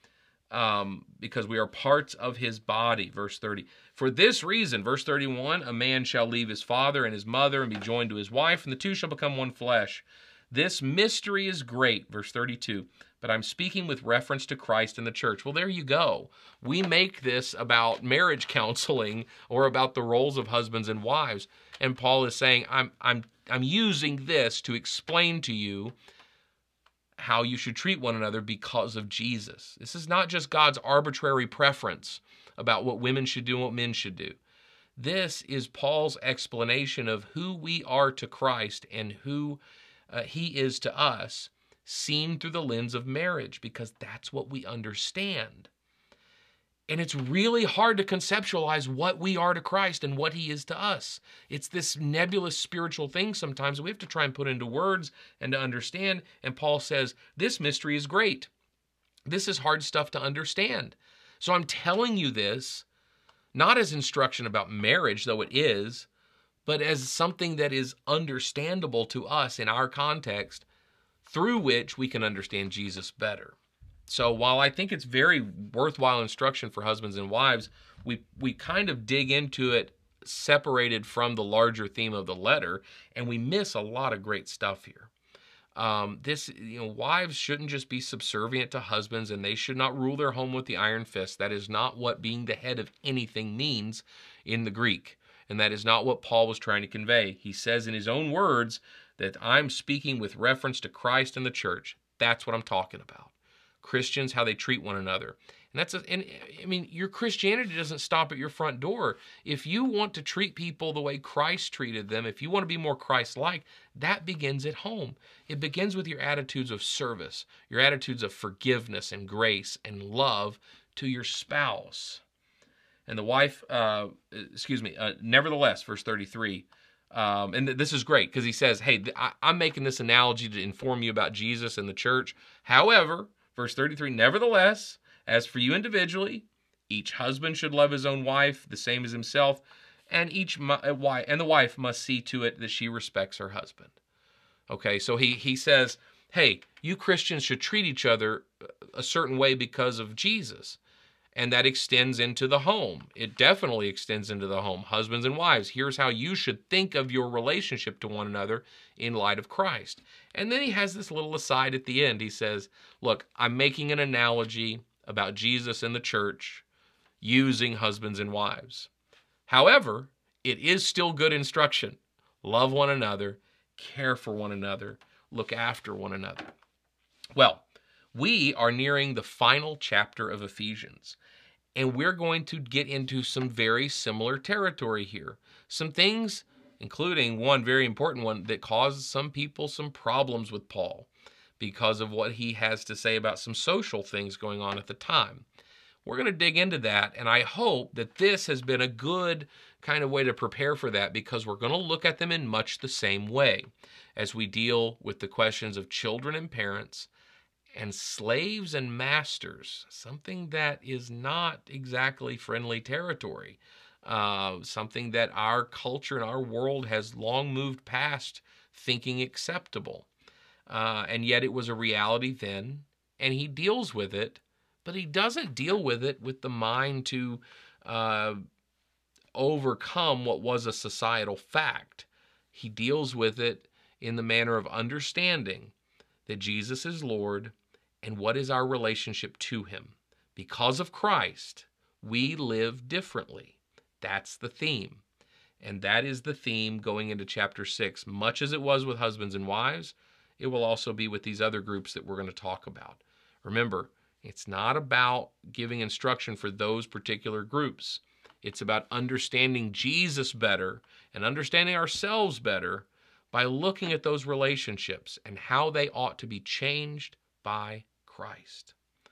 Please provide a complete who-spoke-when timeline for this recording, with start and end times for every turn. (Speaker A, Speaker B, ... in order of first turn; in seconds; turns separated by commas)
Speaker A: 0.5-25.9, Speaker A: 27.2-34.4, Speaker A: 35.0-45.7, Speaker A: 46.9-58.5, Speaker A: 59.3-62.9, Speaker A: 63.5-66.1, Speaker A: 66.7-70.7, Speaker A: 71.2-73.5, Speaker A: 74.1-85.1, Speaker A: 85.7-122.2, Speaker A: 123.1-143.9, Speaker A: 144.7-150.8, Speaker A: 151.3-166.6, Speaker A: 167.2-168.9, Speaker A: 169.5-176.5, Speaker A: 177.3-181.2, Speaker A: 181.7-191.1, Speaker A: 191.6-195.4, Speaker A: 196.0-207.1, Speaker A: 207.7-220.1, Speaker A: 220.7-228.4, Speaker A: 229.3-235.7, Speaker A: 236.2-245.0, Speaker A: 245.6-268.7